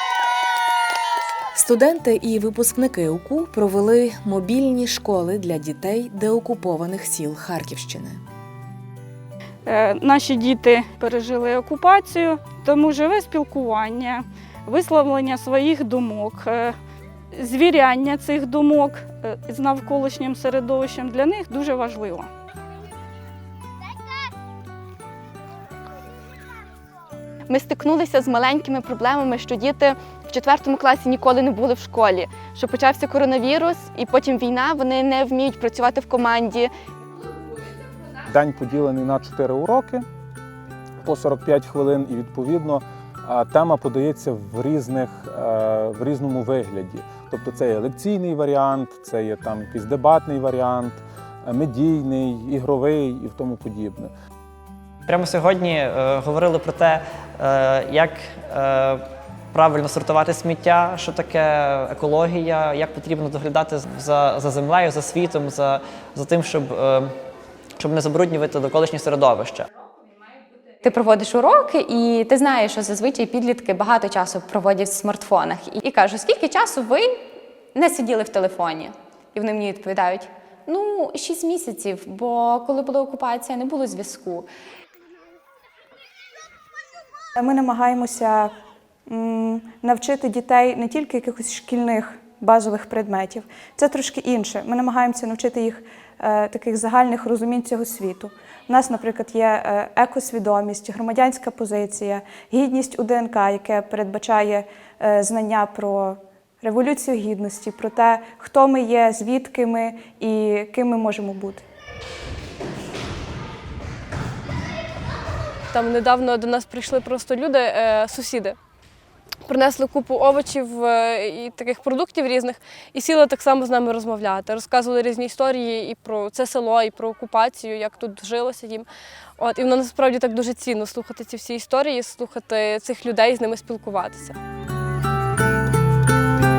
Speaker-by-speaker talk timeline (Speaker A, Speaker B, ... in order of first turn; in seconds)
Speaker A: 1.5-8.2
Speaker B: 9.7-16.6, 17.4-22.2
Speaker C: 27.5-36.7
Speaker D: 38.2-40.0, 41.0-54.1
Speaker E: 55.1-67.1, 67.8-69.7
Speaker F: 70.8-77.2, 77.8-84.5
Speaker G: 87.4-88.5, 89.1-111.6
Speaker H: 115.7-118.6, 119.5-134.4